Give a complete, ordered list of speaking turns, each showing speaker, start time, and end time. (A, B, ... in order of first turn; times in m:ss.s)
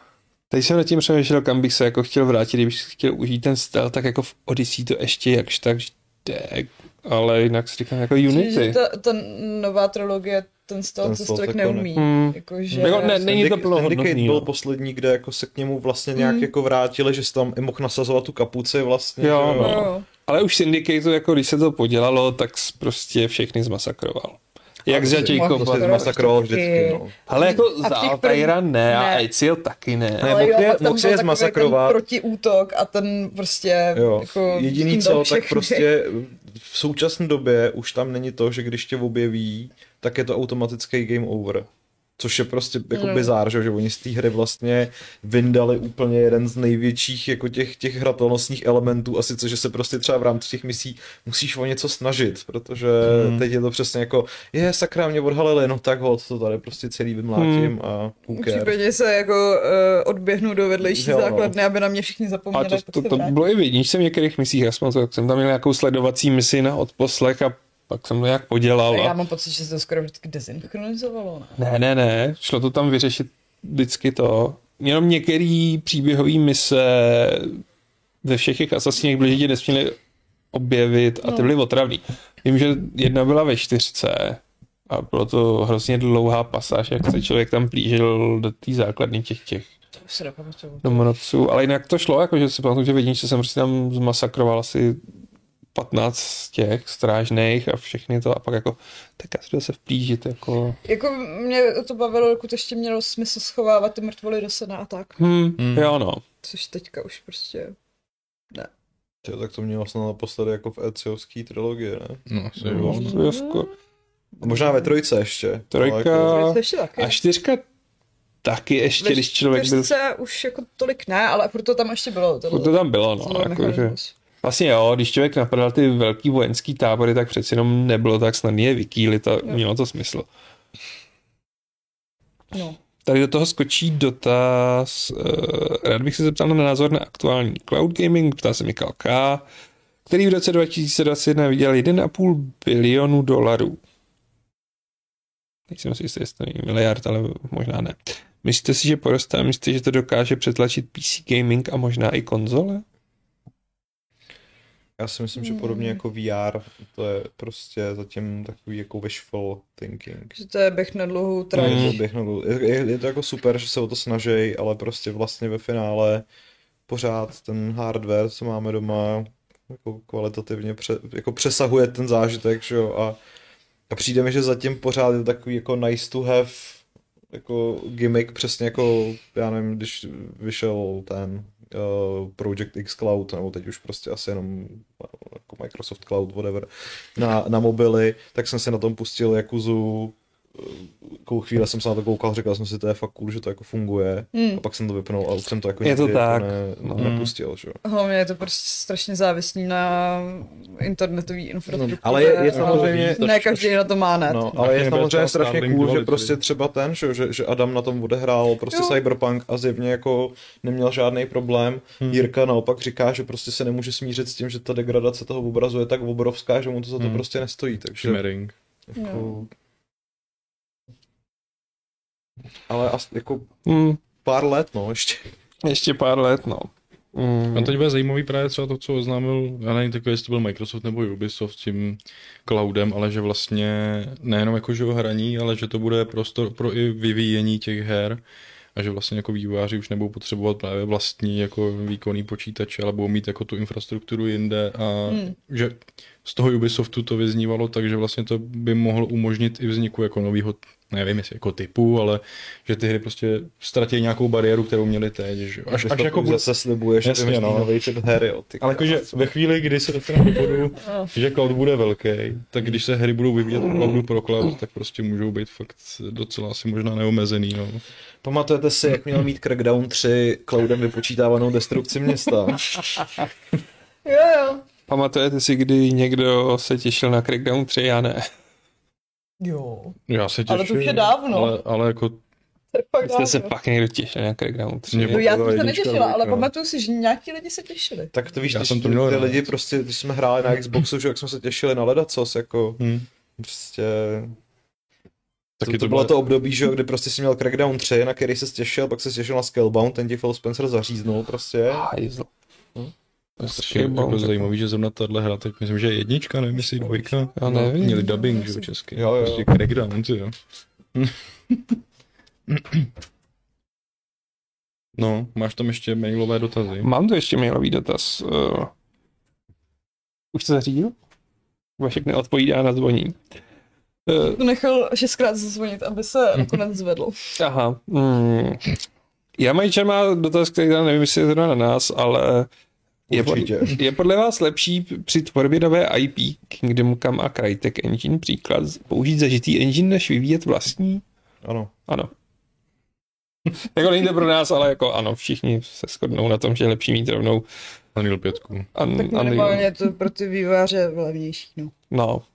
0:00.5-0:08.8 A
0:08.3-0:13.2 B
0:11.0-0:12.0 C
0:11.9-0:14.5 A
0:12.7-0:19.9 C
0:16.2-0:16.5 B
0:19.2-0:26.2 A
0:19.6-0:20.0 B
0:24.9-0:27.2 C
0:24.9-0:29.2 B
0:27.2-0:30.4 A
0:30.2-0:32.0 C
0:30.2-0:35.9 B
0:33.9-0:58.8 C
0:42.9-0:43.3 B
0:53.0-0:53.4 D
0:57.4-0:57.7 A
0:58.3-1:03.4 B
1:00.8-1:01.6 C
1:02.5-1:09.1 A
1:08.9-1:11.6 B
1:11.6-1:17.6 A
1:18.2-1:20.0 A
1:20.5-1:29.7 A
1:21.2-1:21.5 B
1:30.0-1:31.1 B
1:30.8-1:35.0 A
1:35.7-1:40.8 A
1:40.8-1:45.2 B
1:45.2-1:46.2 A
1:45.6-1:45.9 D
1:46.4-1:47.8 B
1:49.2-1:53.1 C
1:52.3-1:53.1 D
1:52.8-1:53.7 A
1:52.8-1:53.6 B
1:54.4-1:54.9 B
1:54.4-1:56.5 C
1:55.7-1:57.6 A
1:56.2-1:57.2 B
1:58.4-1:59.9 A
1:59.0-2:04.1 B
2:02.5-2:10.3 A
2:12.5-2:12.8 B
2:13.0-2:19.4 A
2:20.1-2:23.8 A
2:25.7-2:32.8 A
2:35.0-2:40.3 C
2:35.4-2:36.0 B
2:40.3-2:42.0 B
2:41.5-2:46.2 C
2:41.6-2:42.0 A
2:46.9-2:53.2 C
2:53.9-3:17.8 C
3:14.3-3:14.6 B
3:15.8-3:17.1 A
3:17.0-3:17.3 D
3:17.8-3:24.5 B
3:21.7-3:23.2 D
3:22.0-3:38.2 C
3:24.5-3:26.4 D
3:28.7-3:29.0 B
3:37.9-3:38.5 D
3:38.9-3:39.5 C
3:39.0-3:39.4 B
3:42.7-3:43.5 C
3:43.6-3:44.0 A
3:44.2-3:45.3 C
3:45.6-3:47.8 A
3:47.5-3:58.2 D
3:58.8-4:16.5 D
4:05.1-4:05.3 B
4:15.7-4:19.1 C
4:17.0-4:17.7 D
4:18.6-4:27.8 D
4:28.2-4:33.1 C
4:34.0-4:34.6 B
4:34.9-4:38.3 A
4:39.4-4:41.6 B
4:40.1-4:42.2 D
4:42.7-4:43.5 B
4:43.0-4:45.2 A
4:44.9-4:46.5 D
4:45.1-4:48.1 B
4:48.1-4:52.8 C
4:48.5-4:49.5 D
4:52.8-4:53.1 D
4:53.4-4:54.3 C
4:55.6-4:56.3 D
4:55.6-5:01.9 C
5:01.7-5:02.3 A
5:03.4-5:04.5 A
5:03.5-5:10.4 D
5:06.8-5:07.2 B
5:07.4-5:08.2 A
5:07.9-5:08.7 B
5:08.9-5:09.5 C
5:12.5-5:12.9 D
5:14.9-5:16.9 D
5:16.8-5:18.7 A
5:20.3-5:20.9 A
5:21.8-5:23.2 A
5:24.0-5:24.4 A
5:24.3-5:27.2 B
5:27.4-5:28.7 A
5:29.4-5:32.5 A
5:33.1-5:33.8 C
5:33.1-5:41.0 A
5:41.4-5:41.7 C
5:43.7-5:47.4 A
5:47.9-5:48.7 D
5:48.7-5:49.7 A
5:48.9-5:51.7 B
5:51.9-5:52.2 A